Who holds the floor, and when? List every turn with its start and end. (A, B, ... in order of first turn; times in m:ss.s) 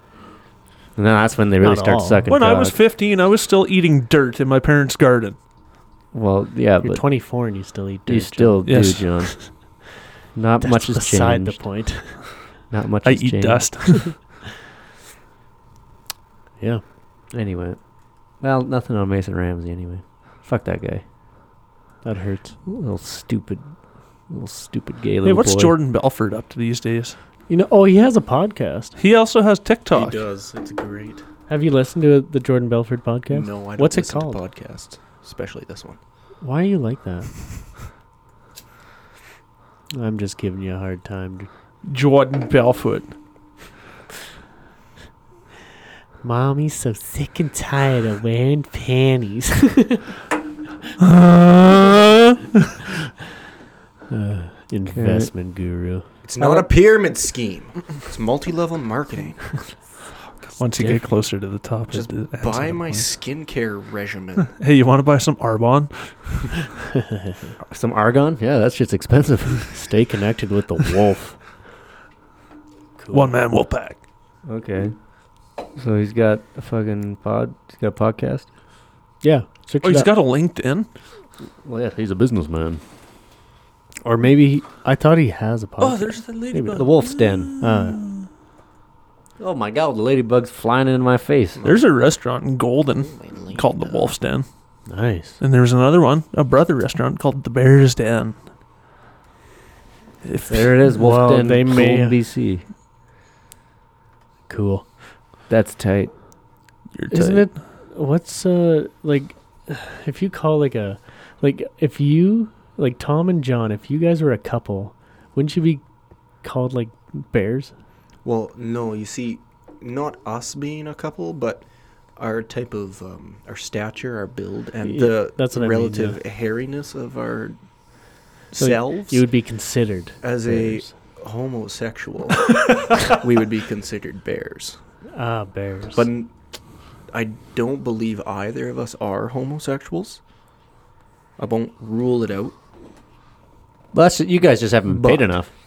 0:01.0-0:02.8 A
0:01.6-0:02.3 B
0:02.3-0:05.4 C
0:06.1-0:12.1 A
0:06.8-0:09.6 B
0:08.6-0:09.3 C
0:10.6-0:12.3 B
0:12.7-0:14.0 A
0:13.0-0:14.1 C
0:17.3-0:21.0 A
0:22.0-0:22.6 B
0:22.6-0:25.7 A
0:25.2-0:27.2 C
0:27.5-0:28.9 B
0:29.0-0:30.2 C
0:29.9-0:31.2 D
0:31.5-0:34.4 B
0:33.3-0:36.0 D
0:36.4-0:37.5 B
0:39.9-0:41.5 B
0:41.8-0:43.1 C
0:46.2-0:50.0 B
0:51.0-0:52.6 C
0:54.1-0:56.6 B
0:54.9-0:55.3 A
0:56.2-1:00.6 D
1:00.6-1:03.1 C
1:00.8-1:01.0 B
1:01.9-1:04.5 D
1:04.5-1:06.6 C
1:07.6-1:09.7 A
1:09.7-1:11.4 B
1:13.0-1:13.4 B
1:13.1-1:14.0 C
1:14.4-1:18.5 A
1:19.2-1:20.1 B
1:19.8-1:20.9 C
1:21.6-1:22.8 A
1:24.0-1:26.9 B
1:25.8-1:28.3 C
1:26.7-1:27.5 A
1:27.6-1:28.0 B
1:29.4-1:31.6 A
1:31.6-1:31.8 D
1:31.6-1:34.9 C
1:33.0-1:34.1 D
1:34.9-1:35.4 B
1:35.4-1:38.4 C
1:40.2-1:40.7 C
1:40.5-1:42.6 A
1:40.9-1:42.2 B
1:44.5-1:44.8 B
1:45.5-1:46.5 A
1:46.9-1:47.5 C
1:47.1-1:55.8 B
1:56.4-1:57.7 B
1:58.2-2:09.3 D
2:04.8-2:06.2 B
2:08.6-2:10.9 B
2:10.2-2:14.8 D
2:15.1-2:16.1 B
2:15.9-2:16.4 D
2:17.1-2:20.2 D
2:21.4-2:22.5 D
2:23.9-2:25.5 A